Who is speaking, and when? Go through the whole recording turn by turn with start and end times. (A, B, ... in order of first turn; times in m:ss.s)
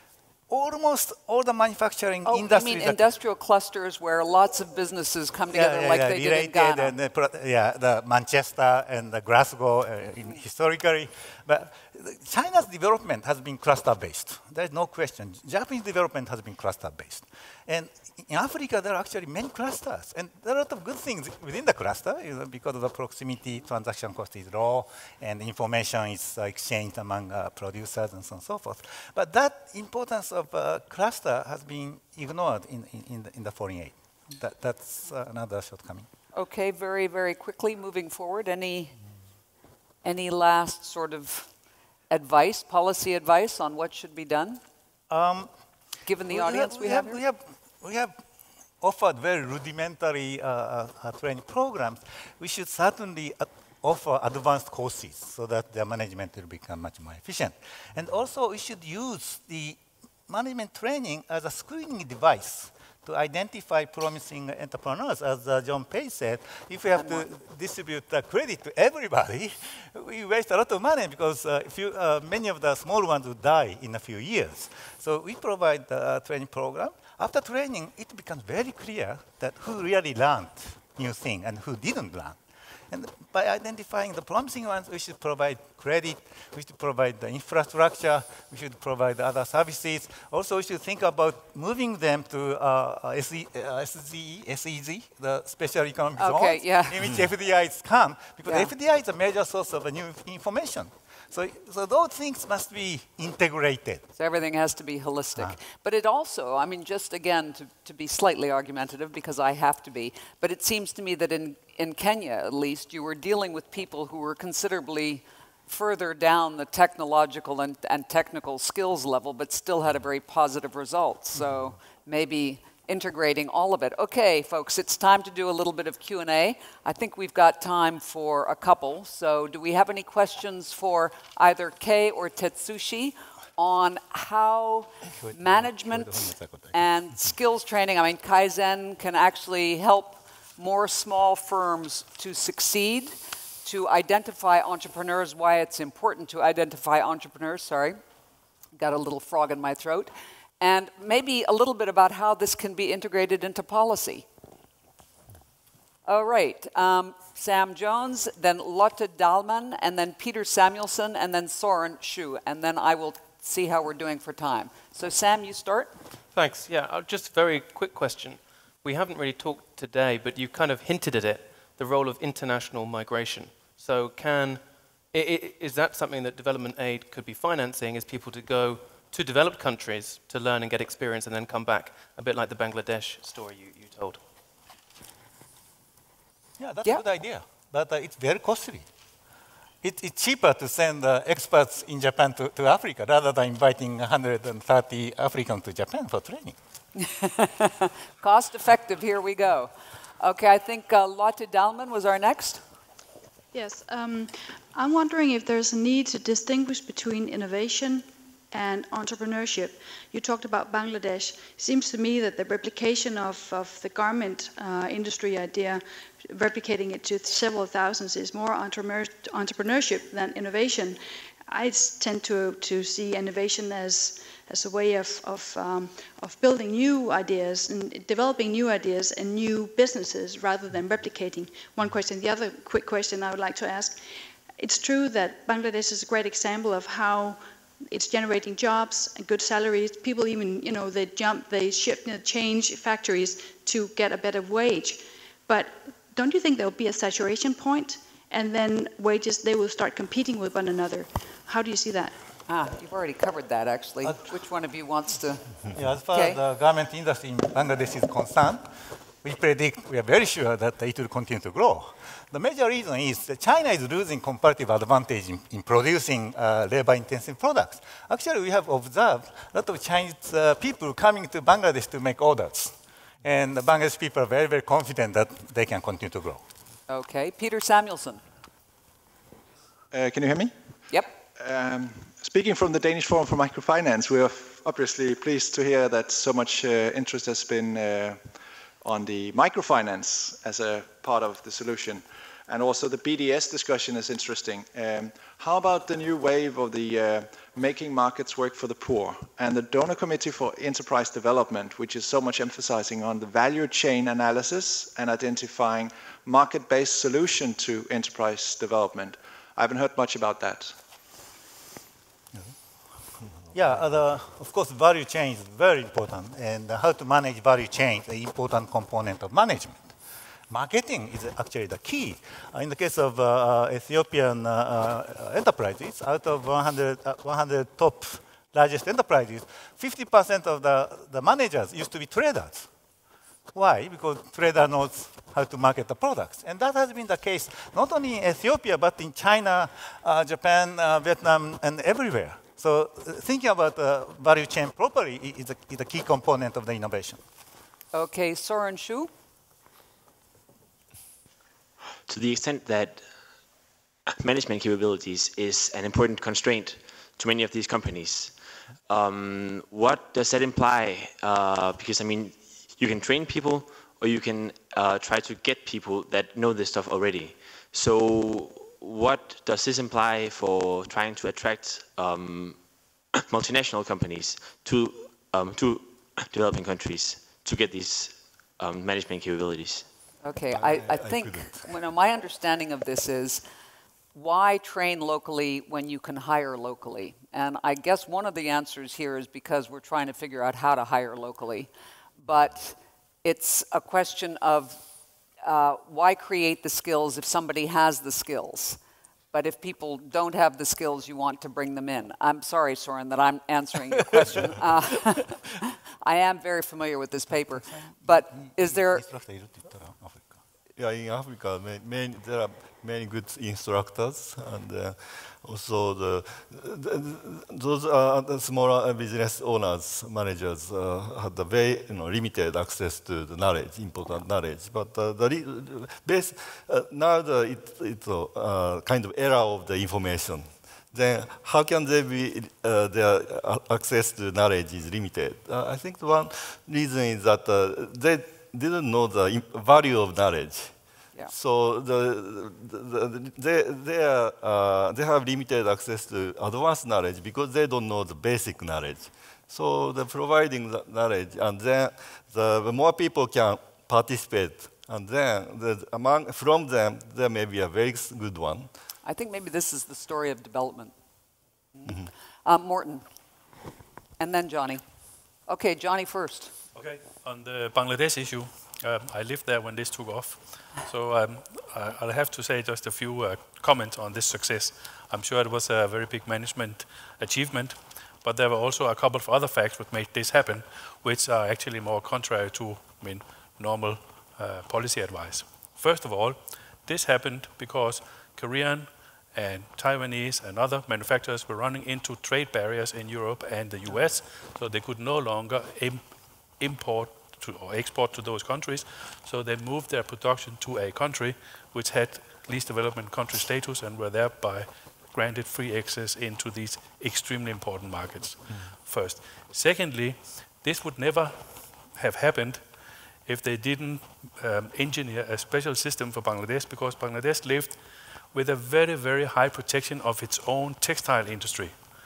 0:00.5-0:03.0 A
0:02.2-0:06.9 B
0:05.5-0:36.1 A
0:36.3-0:38.9 B
0:40.0-0:41.5 B
0:42.1-0:44.6 B
0:45.1-0:45.5 A
0:46.0-0:47.2 B
0:46.3-0:48.2 A
0:48.8-1:22.4 A
1:07.0-1:07.3 B
1:22.9-1:44.0 A
1:36.2-1:37.1 B
1:38.4-1:38.7 B
1:44.2-2:28.0 B
2:15.2-2:16.8 A
2:28.7-2:34.2 B
2:36.0-2:45.9 B
2:46.3-3:04.2 C
3:06.6-3:08.9 A
3:09.8-3:16.6 A
3:17.0-3:22.6 B
3:23.5-3:54.0 D
3:54.6-4:12.1 D
4:12.5-4:15.5 B
4:15.7-4:18.6 A
4:16.1-4:16.4 B
4:19.2-4:36.4 A
4:36.9-4:38.2 B
4:39.9-4:40.5 E
4:40.9-4:41.2 B
4:41.4-4:48.3 E
4:48.8-5:10.7 E
5:13.5-5:20.0 A
5:20.5-5:32.7 A
5:33.5-5:47.2 A
5:47.9-5:49.1 B
5:52.1-5:53.0 F
5:54.2-6:12.6 F
6:13.2-6:19.9 F
6:20.2-6:23.4 B
6:20.5-6:21.7 G
6:24.1-6:31.7 B
6:32.2-6:34.8 B
6:35.4-6:38.8 B
6:39.3-6:49.1 B
6:47.7-6:50.4 A
6:50.8-7:20.7 G
7:21.3-7:38.7 G
7:39.0-7:40.9 B
7:41.7-7:43.0 B
7:44.2-7:44.8 B
7:45.4-7:46.5 B
7:46.7-8:32.7 H
8:33.2-8:41.9 H